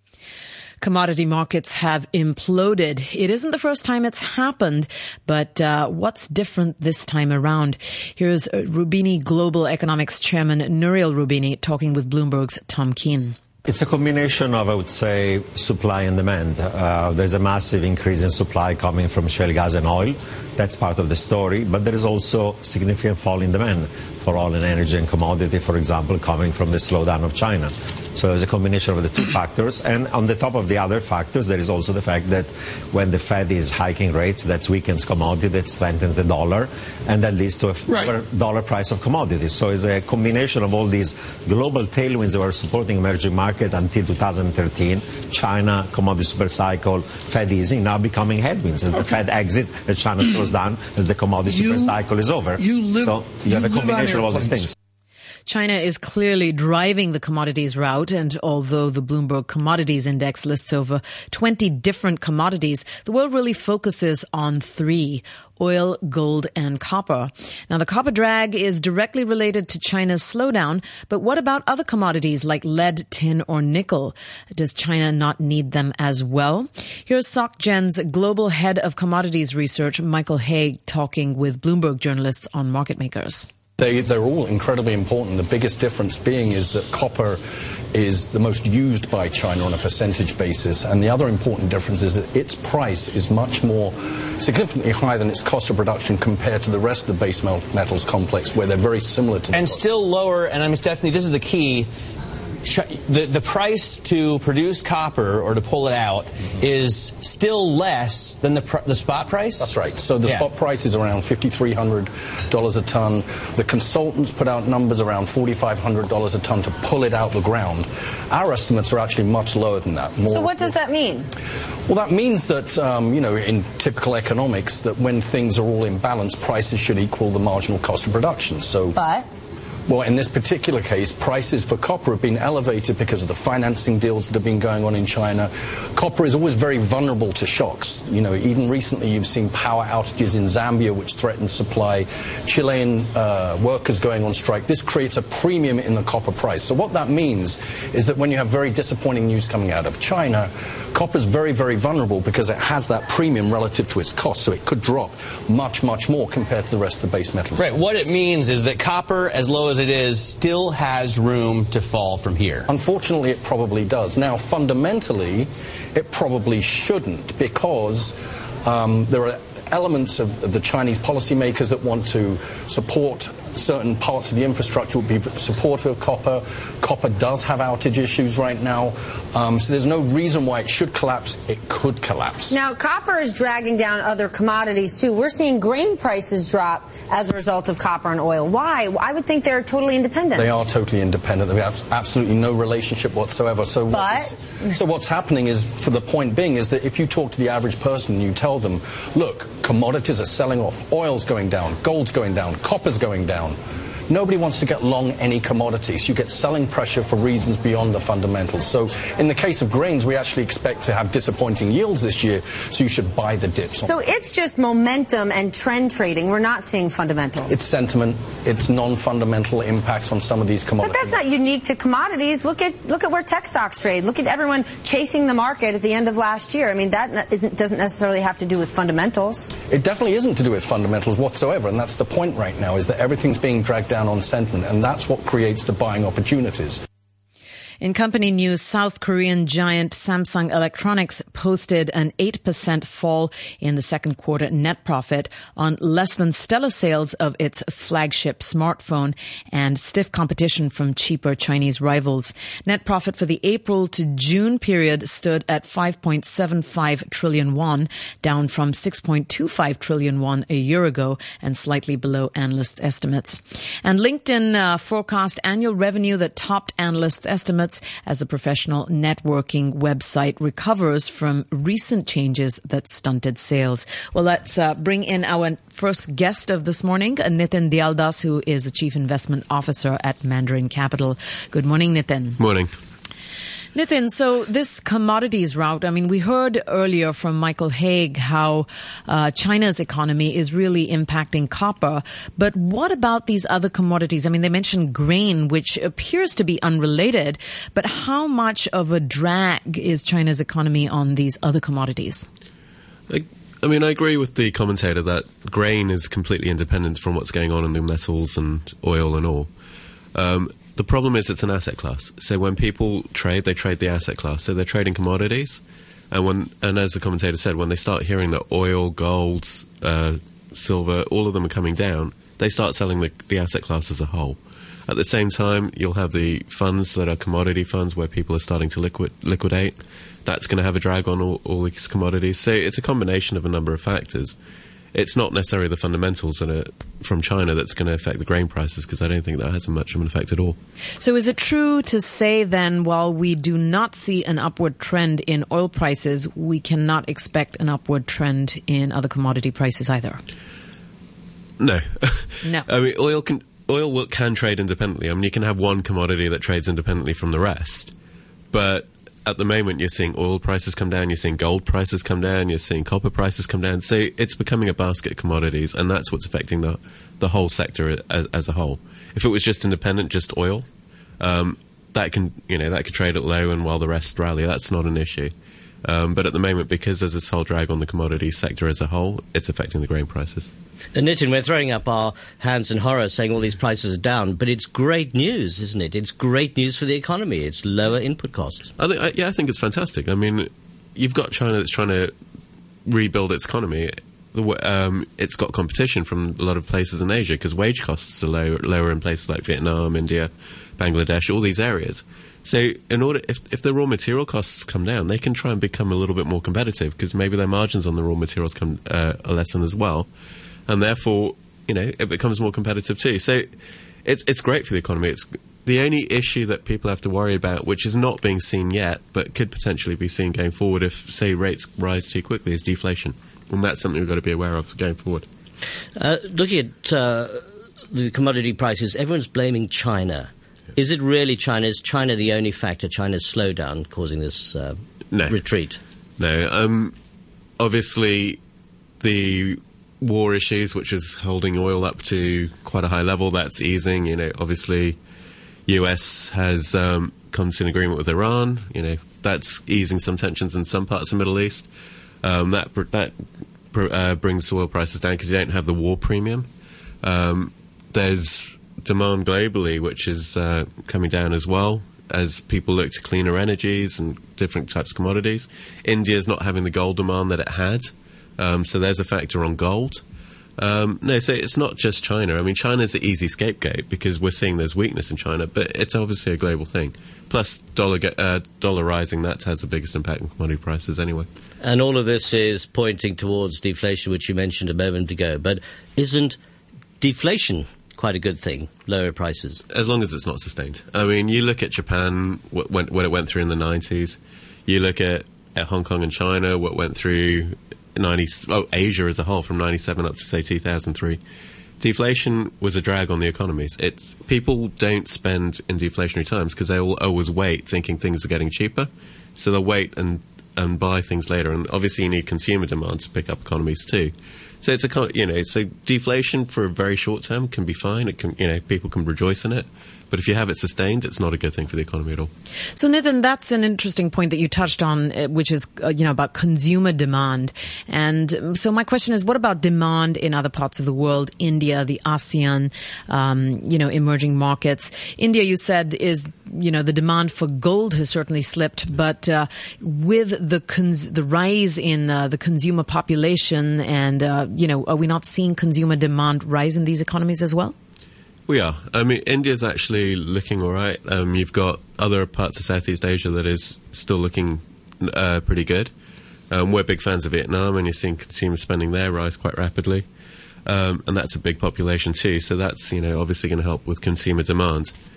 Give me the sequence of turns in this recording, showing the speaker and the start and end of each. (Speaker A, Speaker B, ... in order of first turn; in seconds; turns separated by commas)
Speaker A: 0.8-13.4, Speaker B: 13.6-54.7, Speaker A: 55.5-83.5, Speaker C: 83.8-87.4, Speaker C: 87.9-99.8, Speaker D: 99.5-101.9, Speaker D: 102.6-110.5, Speaker C: 109.6-120.8, Speaker E: 120.3-121.3, Speaker C: 121.9-128.9, Speaker E: 128.9-129.2, Speaker C: 129.9-158.1, Speaker D: 157.6-162.7, Speaker C: 162.7-182.6, Speaker E: 182.5-190.5, Speaker C: 190.3-203.6, Speaker E: 193.9-194.7, Speaker C: 204.1-213.9, Speaker E: 213.8-217.6, Speaker C: 217.5-221.2, Speaker E: 220.8-229.5, Speaker C: 229.7-236.8, Speaker A: 237.8-282.4, Speaker F: 282.4-282.7, Speaker A: 283.7-302.2, Speaker F: 303.1-309.5, Speaker F: 310.1-324.4, Speaker F: 324.9-334.3, Speaker F: 334.9-340.6, Speaker A: 341.0-350.2, Speaker F: 351.6-357.9, Speaker F: 358.5-370.7, Speaker F: 371.2-375.3, Speaker F: 375.8-380.5, Speaker G: 380.9-388.7, Speaker F: 388.8-392.1, Speaker F: 392.9-410.1, Speaker F: 410.7-413.5, Speaker F: 414.0-425.2, Speaker G: 426.0-435.8, Speaker F: 435.1-435.4, Speaker F: 436.2-436.9, Speaker F: 437.6-438.4, Speaker F: 439.0-445.0, Speaker F: 445.7-451.7, Speaker F: 452.2-453.1, Speaker F: 453.7-456.5, Speaker F: 457.0-470.0, Speaker F: 470.6-481.3, Speaker G: 481.6-486.4, Speaker G: 487.0-489.6, Speaker F: 489.7-501.2, Speaker F: 501.8-522.3, Speaker A: 522.7-547.7, Speaker F: 548.5-555.9, Speaker F: 556.5-560.0, Speaker F: 560.6-564.9